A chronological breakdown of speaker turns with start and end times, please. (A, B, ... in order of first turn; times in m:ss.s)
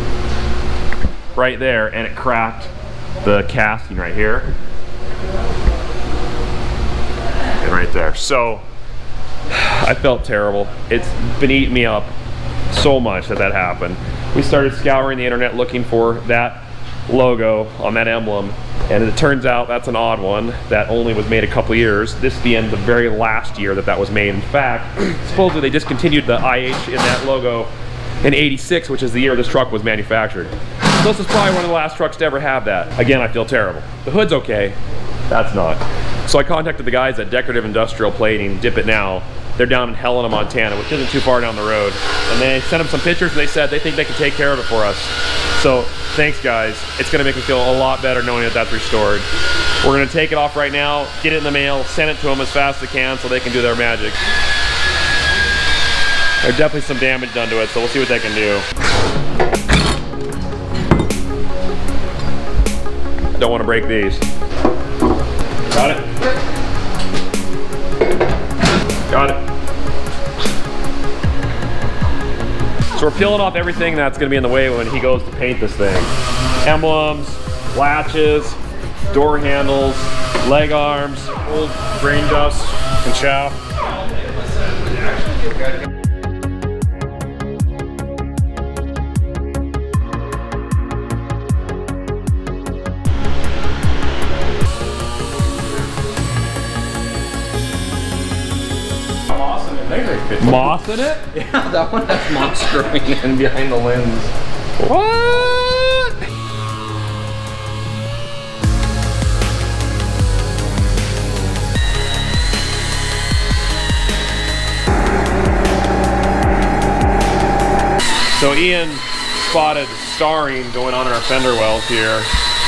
0:01.3-0:02.7 A
0:03.2-0:04.5 A
0:07.6-0:08.6 A
0:09.5-0:12.1 A
0:12.7-0:27.7 A
0:28.2-0:34.8 A
0:35.3-0:49.3 A
0:49.8-0:54.2 A
0:56.4-0:58.6 A
1:03.4-1:04.2 A
1:05.7-1:06.1 A
1:09.1-1:09.4 A
1:12.9-1:16.1 A
1:16.6-1:18.6 A
1:19.1-1:21.5 A
1:21.5-1:23.6 B
1:39.3-1:40.1 B
1:39.9-1:40.4 C
1:40.4-1:41.2 A
1:41.3-1:44.3 C
1:44.8-1:46.1 A
1:58.3-2:02.3 A